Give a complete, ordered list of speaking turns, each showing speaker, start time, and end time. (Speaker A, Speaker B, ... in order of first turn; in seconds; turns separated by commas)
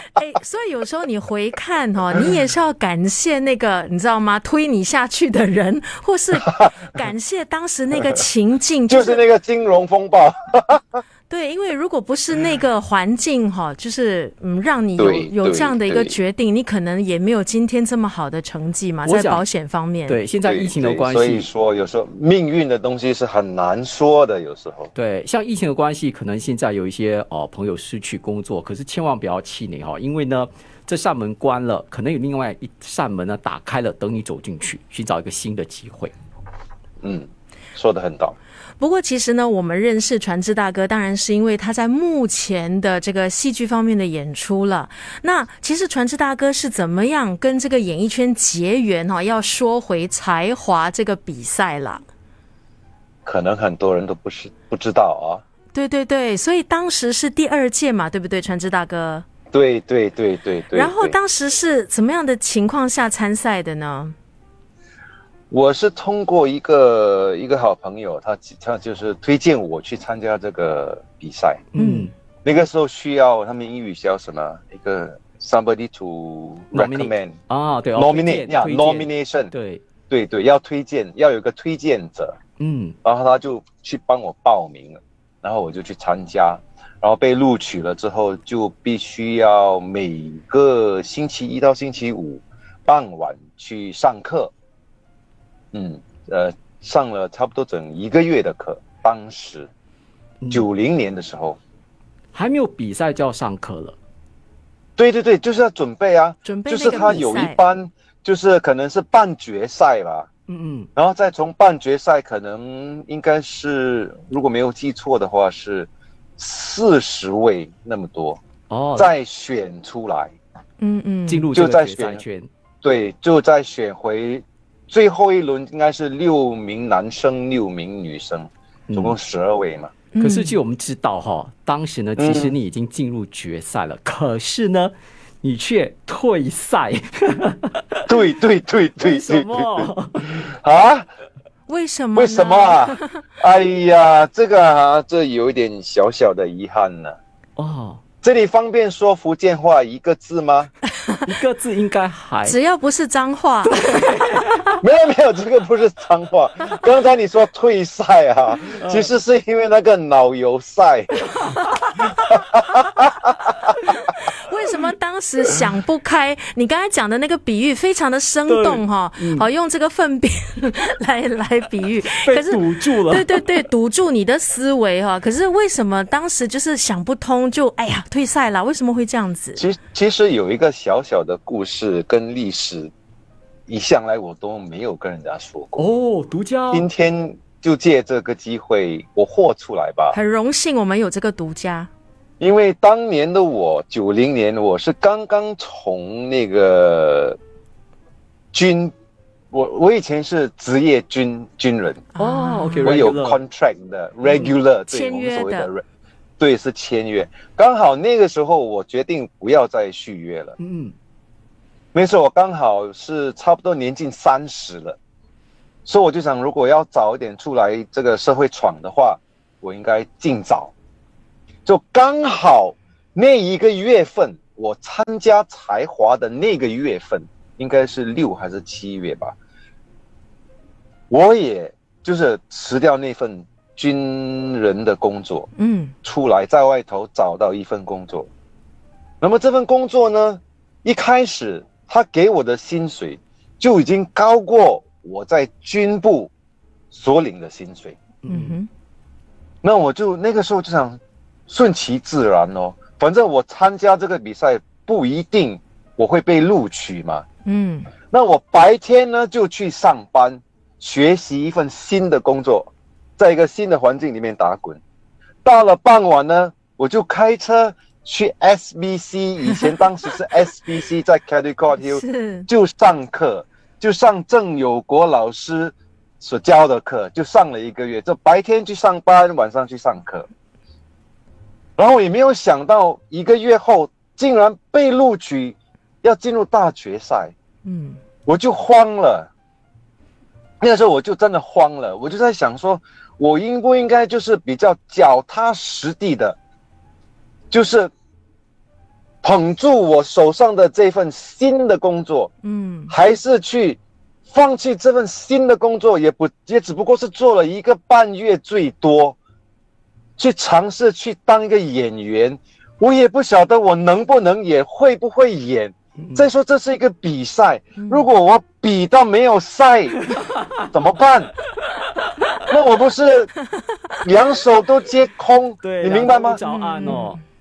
Speaker A: 0.1-9.2, Speaker B: 8.9-11.0, Speaker A: 11.3-20.2, Speaker B: 15.0-16.1, Speaker C: 19.1-19.4, Speaker C: 20.1-21.5, Speaker B: 20.4-24.9, Speaker C: 24.9-36.1, Speaker B: 37.0-38.4, Speaker A: 38.8-52.0, Speaker B: 53.2-55.4, Speaker A: 55.7-59.2, Speaker B: 59.5-61.1, Speaker A: 60.7-64.1, Speaker B: 65.5-71.6, Speaker C: 71.7-72.1, Speaker A: 71.8-72.1, Speaker B: 72.4-77.3, Speaker C: 76.7-79.8, Speaker B: 77.9-79.5, Speaker B: 80.1-82.4, Speaker C: 82.6-83.0, Speaker B: 83.0-94.5, Speaker B: 95.7-99.7, Speaker B: 100.5-101.6, Speaker C: 102.3-104.0, Speaker B: 105.0-110.3, Speaker A: 106.4-107.6, Speaker C: 110.5-110.9, Speaker B: 111.0-118.4, Speaker C: 118.7-119.1, Speaker B: 119.0-120.3, Speaker A: 120.8-121.5, Speaker C: 121.3-122.5, Speaker B: 121.5-122.2, Speaker B: 122.8-129.9, Speaker C: 128.9-129.2, Speaker A: 130.1-130.5, Speaker C: 130.2-138.0, Speaker B: 132.2-132.5, Speaker B: 138.1-141.1, Speaker C: 139.0-140.3, Speaker A: 141.7-143.1, Speaker B: 142.1-147.2, Speaker C: 147.6-148.0, Speaker B: 148.2-150.7, Speaker C: 151.2-152.6, Speaker A: 152.4-154.0, Speaker C: 153.7-154.8, Speaker B: 154.8-161.2, Speaker C: 158.8-159.1, Speaker B: 162.3-163.3, Speaker A: 164.1-179.6, Speaker C: 168.5-169.4, Speaker C: 172.1-173.4, Speaker B: 179.6-182.9, Speaker B: 183.7-185.8, Speaker C: 185.8-186.8, Speaker B: 186.7-190.2, Speaker A: 190.1-191.9, Speaker B: 192.4-197.4, Speaker B: 198.5-198.9, Speaker B: 199.5-202.1, Speaker A: 202.2-202.9, Speaker C: 202.2-203.4, Speaker B: 202.8-205.8, Speaker A: 204.9-205.7, Speaker B: 206.4-210.5, Speaker C: 210.6-210.9, Speaker B: 211.9-215.0, Speaker B: 215.8-220.7, Speaker B: 221.7-229.3, Speaker B: 231.1-235.5, Speaker A: 235.6-235.9, Speaker B: 236.0-238.3, Speaker B: 239.2-246.3, Speaker B: 246.9-248.0, Speaker C: 248.2-248.6, Speaker A: 248.3-248.7, Speaker B: 249.6-257.2, Speaker A: 257.4-257.9, Speaker B: 258.1-264.8, Speaker B: 265.4-280.3, Speaker A: 271.8-272.5, Speaker B: 281.8-287.3, Speaker A: 287.6-288.0, Speaker B: 288.2-289.3, Speaker B: 290.6-296.4, Speaker B: 297.5-297.9, Speaker B: 299.2-302.3, Speaker A: 302.4-302.9, Speaker B: 302.9-309.2, Speaker B: 310.2-320.0, Speaker C: 316.0-316.2, Speaker A: 317.8-318.0, Speaker C: 320.1-320.7, Speaker B: 320.7-321.3, Speaker B: 322.5-323.3, Speaker B: 324.0-326.4, Speaker C: 325.6-327.2, Speaker A: 326.4-327.2